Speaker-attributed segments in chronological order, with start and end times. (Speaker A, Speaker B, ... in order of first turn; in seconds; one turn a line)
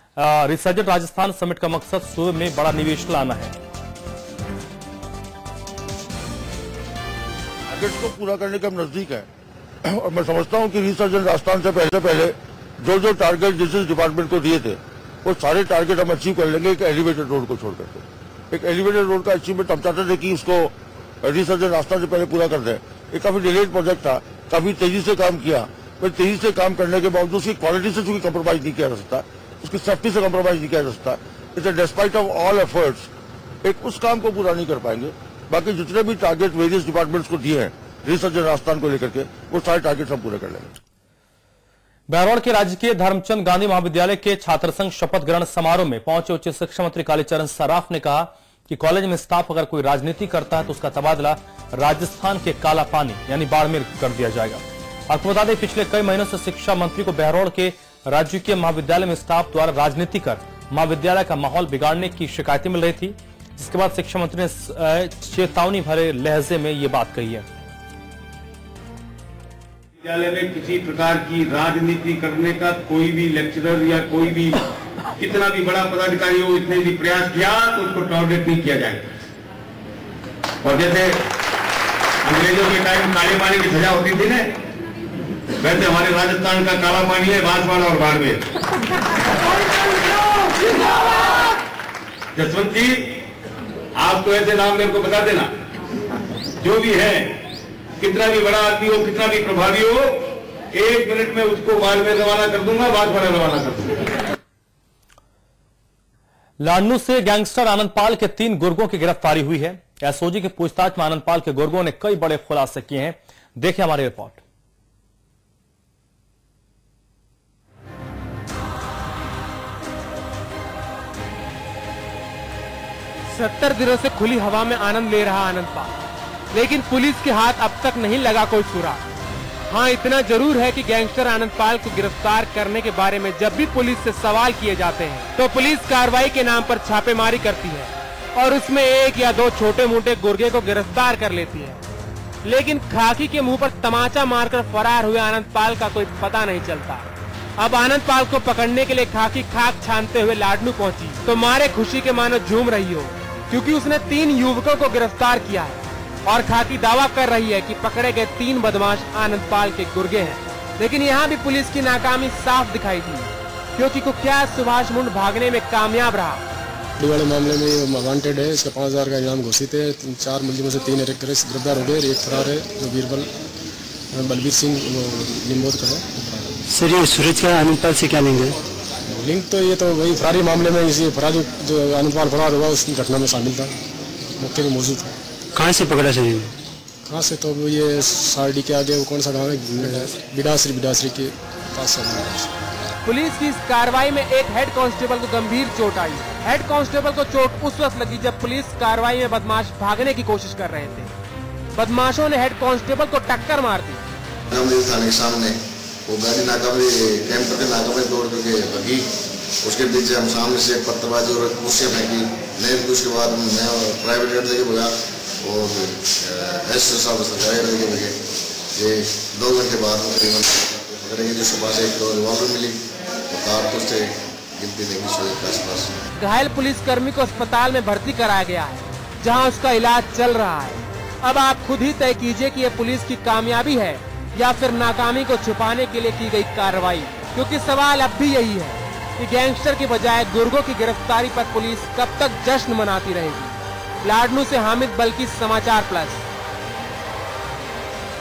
Speaker A: 0.2-3.5
Speaker B: 7.7-9.3
Speaker B: 9.8-33.1
Speaker B: 33.6-40.7
Speaker A: 42.1-67.5
Speaker C: 70.0-74.6
Speaker C: 75.2-79.1
Speaker C: 80.6-81.2
Speaker C: 82.2-84.5
Speaker C: 85.6-88.4
Speaker C: 89.9-90.4
Speaker C: 92.3-93.2
Speaker C: 94.0-95.5
Speaker C: 96.6-97.4
Speaker C: 98.0-104.1
Speaker A: 106.6-114.4
Speaker D: 123.3-125.9
Speaker D: 126.5-129.1
Speaker D: 129.7-141.8
Speaker D: 142.4-147.1
Speaker D: 147.6-166.4
Speaker E: 167.0-173.3
Speaker E: 174.1-176.3
Speaker F: 176.7-178.5
Speaker E: 179.1-183.7
Speaker E: 184.4-185.1
Speaker F: 185.5-186.5
Speaker E: 187.1-192.5
Speaker D: 193.0-201.1
Speaker D: 201.7-204.0
Speaker G: 204.5-209.1
Speaker G: 209.6-218.2
Speaker G: 218.7-225.9
Speaker D: 226.2-246.2